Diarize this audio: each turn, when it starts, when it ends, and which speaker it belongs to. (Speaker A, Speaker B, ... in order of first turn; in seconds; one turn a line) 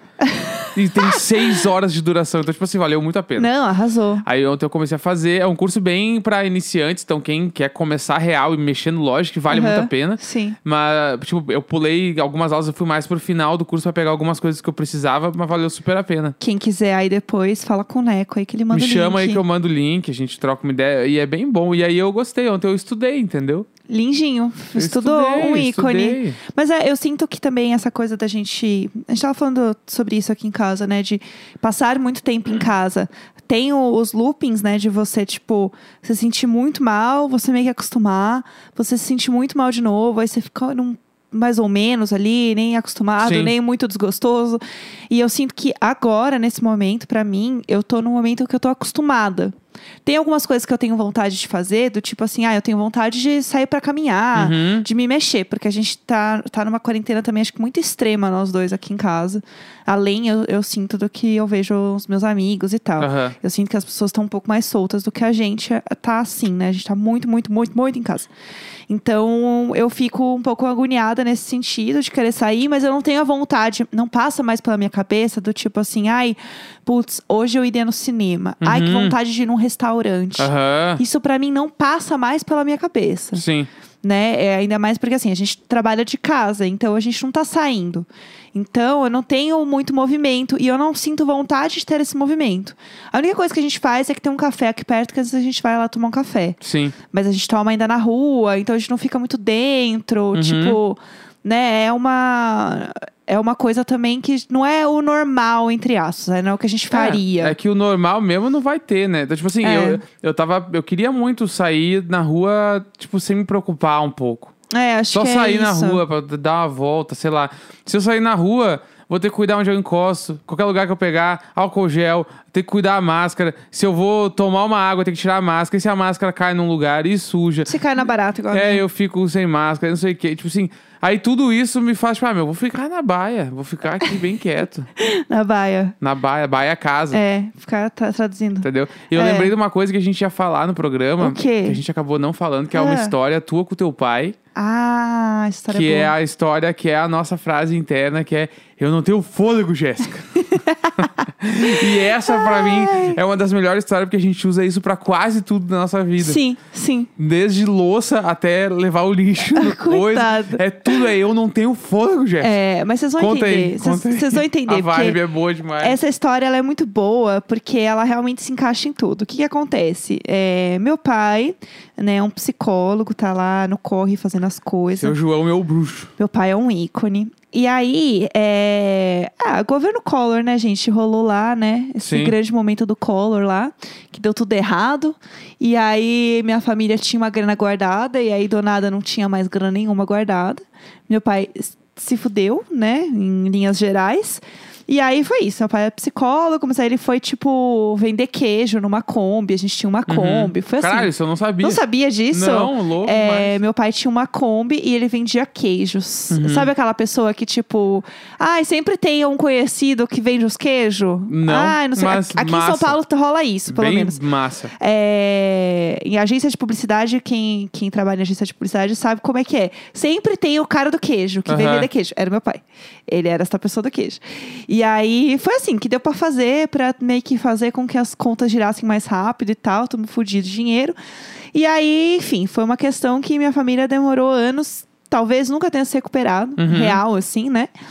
Speaker A: 0.2-1.2
Speaker B: 0.7-3.5
Speaker A: 3.4-4.2
Speaker B: 4.2-16.4
Speaker A: 9.5-10.6
Speaker A: 16.4-19.4
Speaker B: 18.7-23.6
Speaker A: 23.9-68.3
Speaker B: 24.7-26.4
Speaker B: 43.2-43.5
Speaker B: 54.3-54.9
Speaker B: 63.0-63.3
Speaker A: 68.9-83.4
Speaker B: 78.6-79.2
Speaker B: 80.4-81.0
Speaker B: 83.3-83.7
Speaker A: 84.0-96.6
Speaker B: 96.6-97.0
Speaker A: 97.1-107.5
Speaker B: 100.3-100.8
Speaker B: 106.9-114.5
Speaker A: 109.6-110.0
Speaker A: 114.7-116.0
Speaker B: 115.1-127.8
Speaker A: 127.7-128.8
Speaker B: 128.5-134.9
Speaker A: 135.0-135.9
Speaker B: 136.0-137.2
Speaker A: 137.1-139.5
Speaker B: 138.6-144.3
Speaker A: 141.2-141.8
Speaker A: 142.7-143.1
Speaker A: 144.5-146.1
Speaker B: 145.7-150.4
Speaker A: 150.4-150.9
Speaker B: 151.0-156.4
Speaker A: 152.0-153.2
Speaker A: 156.2-157.1
Speaker B: 157.2-162.6
Speaker A: 159.5-161.1
Speaker A: 162.4-165.2
Speaker B: 163.2-166.0
Speaker A: 165.8-175.2
Speaker B: 175.0-176.1
Speaker A: 176.2-201.1
Speaker B: 182.0-182.3
Speaker B: 200.1-203.6
Speaker A: 201.6-214.2
Speaker B: 206.3-206.7
Speaker B: 211.3-213.0
Speaker B: 213.7-214.7
Speaker A: 214.8-230.9
Speaker B: 221.5-221.9
Speaker A: 231.5-237.7
Speaker B: 236.6-237.0